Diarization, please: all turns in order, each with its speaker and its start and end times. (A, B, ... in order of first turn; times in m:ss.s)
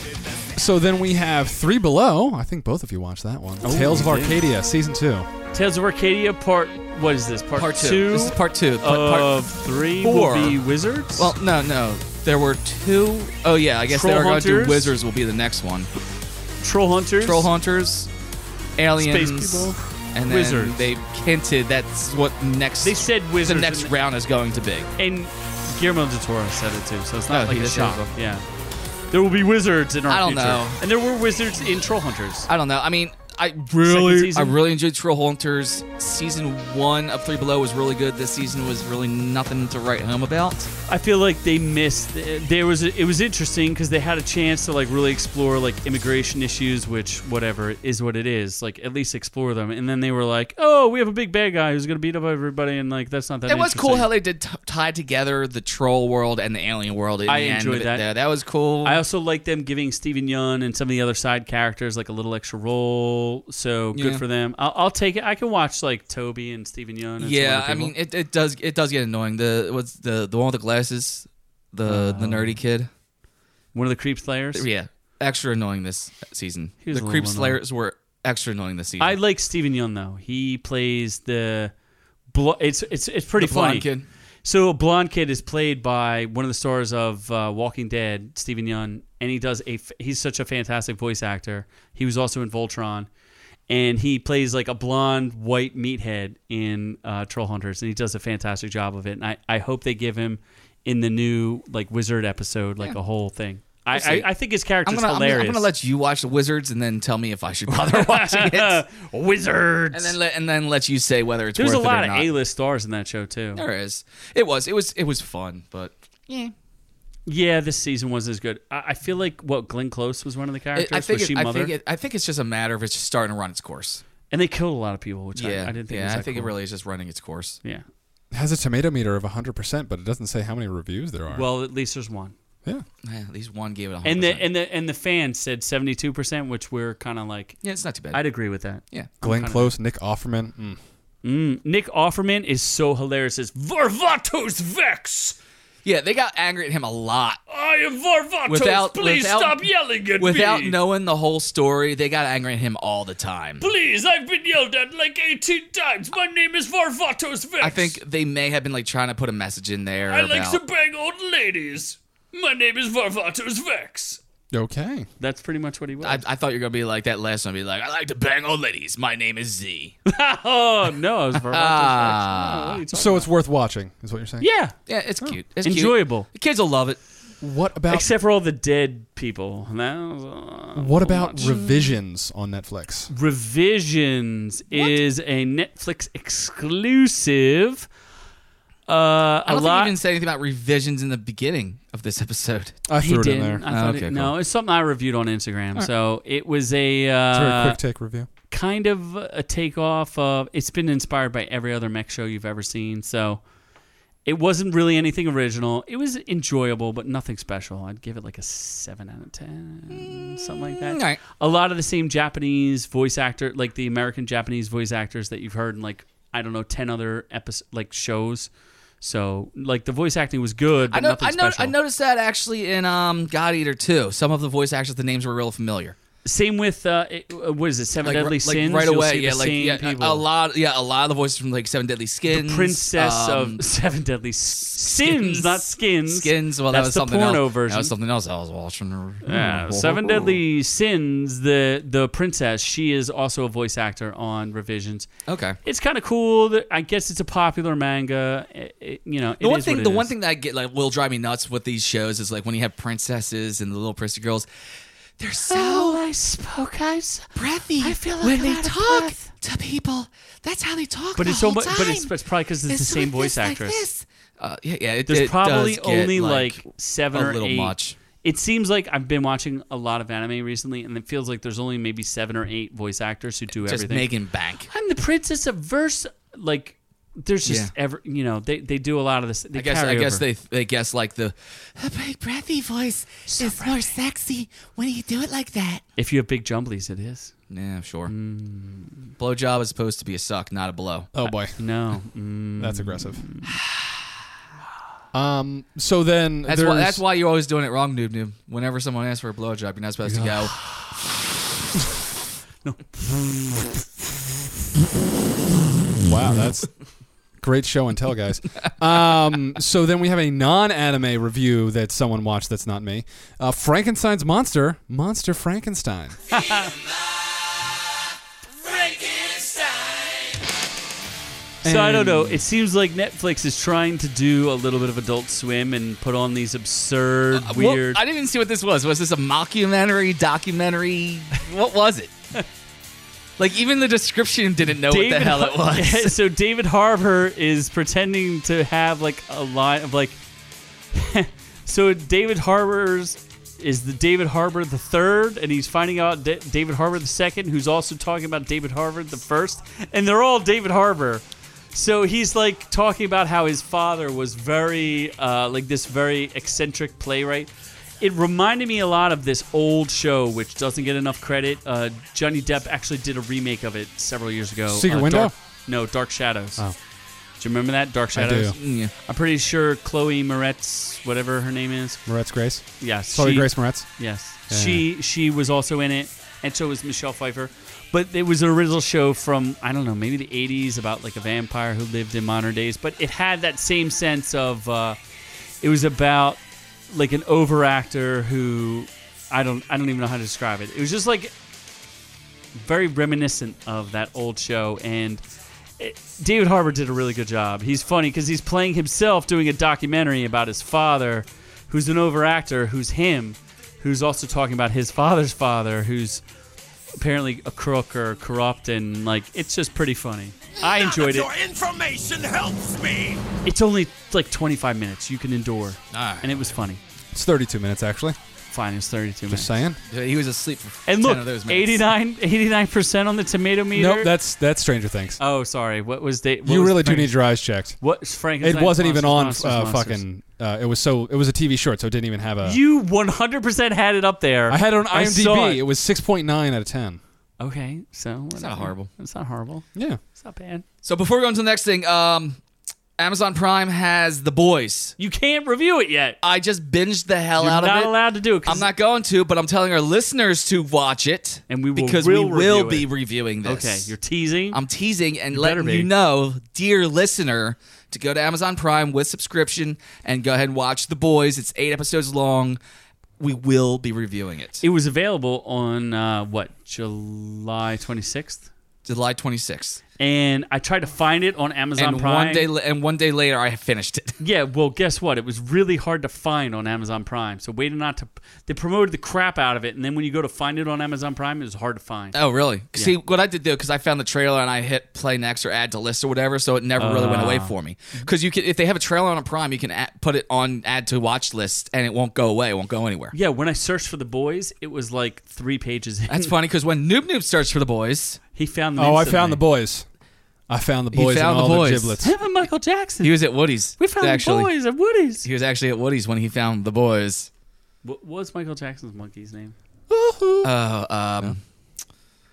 0:00.6-0:05.3 A
0:03.6-0:04.3 B
0:03.8-0:04.4 C
0:05.5-0:11.3 B
0:07.6-0:09.4 C
0:10.0-0:10.6 C
0:11.2-0:15.9 C
0:13.9-0:14.9 B
0:16.6-0:17.5 B
0:17.2-0:18.1 C
0:18.8-0:24.9 C
0:19.0-0:20.8 B
0:22.8-0:23.9 B
0:25.0-0:28.4 B
0:27.3-0:28.1 C
0:29.1-0:32.5 B
0:30.1-0:30.8 C
0:32.5-0:40.7 C
0:33.8-0:34.6 B
0:40.9-0:54.1 B
0:53.5-0:59.0 C
0:57.3-0:58.0 B
0:58.8-1:07.9 B
1:04.0-1:04.2 C
1:07.2-1:12.9 C
1:11.9-1:12.6 B
1:13.7-1:14.7 B
1:14.6-1:19.2 C
1:16.8-1:17.6 B
1:19.0-1:21.7 B
1:22.3-1:23.9 B
1:23.4-1:24.1 C
1:24.4-1:33.1 B
1:33.7-1:45.7 B
1:43.9-1:48.8 C
1:47.7-1:50.2 B
1:49.9-1:52.3 C
1:51.6-1:53.6 B
1:53.6-1:56.5 C
1:57.3-2:01.7 B
2:00.8-2:04.0 C
2:04.3-2:06.5 B
2:05.4-2:07.6 C
2:08.3-2:11.5 A
2:11.3-2:12.4 B
2:13.0-2:14.5 C
2:14.0-2:17.6 B
2:17.6-2:18.2 C
2:18.1-2:19.7 B
2:19.2-2:20.8 A
2:21.2-2:25.4 B
2:25.8-2:27.4 C
2:27.5-2:30.8 B
2:28.5-2:29.6 C
2:30.2-2:33.6 C
2:33.6-2:38.0 B
2:37.6-2:40.6 C
2:40.1-2:44.2 B
2:44.5-2:45.1 A
2:45.2-2:46.2 B
2:46.0-2:50.0 C
2:50.1-2:53.3 B
2:51.4-2:52.8 C
2:52.9-2:54.5 A
2:54.4-2:54.8 B
2:54.9-2:57.0 C
2:55.6-2:56.3 B
2:57.4-2:58.1 A
2:57.9-3:01.8 B
3:00.8-3:03.1 A
3:03.1-3:07.9 B
3:04.7-3:05.0 C
3:08.9-3:10.0 B
3:09.5-3:12.8 C
3:12.9-3:13.6 A
3:13.0-3:17.8 B
3:13.7-3:14.3 C
3:17.3-3:18.3 A
3:18.5-3:23.4 B
3:24.2-3:41.8 B
3:30.7-3:31.2 C
3:40.9-3:46.0 C
3:46.2-3:50.2 B
3:48.0-3:53.6 C
3:52.3-3:57.9 B
3:54.6-4:00.4 C
3:59.2-4:05.1 B
4:05.3-4:05.6 C
4:05.6-4:10.1 B
4:09.4-4:14.5 C
4:15.2-4:16.0 C
4:15.4-4:19.3 B
4:17.4-4:22.1 C
4:21.2-4:23.8 B
4:22.7-4:28.0 C
4:25.1-4:34.1 B
4:33.5-4:34.7 C
4:34.7-4:40.2 B
4:37.5-4:37.7 C
4:39.6-4:45.8 C
4:43.3-4:43.8 B
4:46.0-4:47.3 B
4:47.5-4:48.1 C
4:48.1-4:49.1 B
4:49.2-4:51.1 C
4:51.1-4:51.6 A
4:51.2-4:53.6 B
4:52.6-4:53.2 A
4:55.1-4:57.0 A
4:56.4-5:00.6 C
5:00.0-5:00.5 A
5:02.6-5:04.1 B
5:06.0-5:06.8 A
5:07.4-5:16.2 A
5:16.3-5:16.7 B
5:21.6-5:22.4 A
5:21.6-5:28.0 B
5:27.3-5:32.1 C
5:33.4-5:36.2 C
5:34.7-5:40.2 B
5:40.9-5:57.5 B
5:58.0-6:06.6 B
6:04.7-6:05.3 A
6:07.4-6:12.0 B
6:08.1-6:08.6 A
6:08.6-6:08.9 C
6:12.1-6:14.8 A
6:12.8-6:25.0 B
6:25.6-6:31.3 B
6:32.6-6:35.2 B
6:35.8-6:46.2 B
6:47.0-6:51.3 B
6:50.8-6:53.2 D
6:53.4-6:56.8 B
6:55.9-6:56.5 C
6:57.1-6:58.2 A
6:58.5-6:59.5 B
6:59.3-6:59.8 A
6:59.9-7:01.9 C
7:00.9-7:04.1 B
7:03.7-7:05.2 A
7:05.2-7:10.0 B
7:06.4-7:07.8 A
7:08.4-7:12.6 A
7:12.4-7:15.6 B
7:14.5-7:17.0 A
7:17.4-7:20.6 B
7:18.3-7:18.9 C
7:19.8-7:20.0 A
7:20.8-7:22.4 C
7:23.0-7:25.0 C
7:25.0-7:26.2 B
7:26.2-7:33.9 C
7:27.4-7:28.7 B
7:31.5-7:32.9 B
7:33.4-7:34.6 B
7:34.5-7:42.6 C
7:35.3-7:35.9 B
7:43.2-7:44.6 C
7:44.6-7:48.5 B
7:48.9-7:49.8 C
7:50.0-7:52.5 B
7:51.8-7:54.2 C
7:54.2-8:02.2 B
8:02.1-8:13.2 C
8:06.8-8:08.1 B
8:13.1-8:16.3 B
8:16.1-8:18.2 C
8:18.4-8:19.4 B
8:18.8-8:19.8 A
8:20.5-8:22.1 A
8:20.9-8:22.0 C
8:22.0-8:23.2 B
8:23.0-8:24.5 C
8:23.8-8:25.3 B
8:25.2-8:27.3 C
8:27.8-8:29.6 B
8:29.9-8:30.5 A
8:30.4-8:31.4 C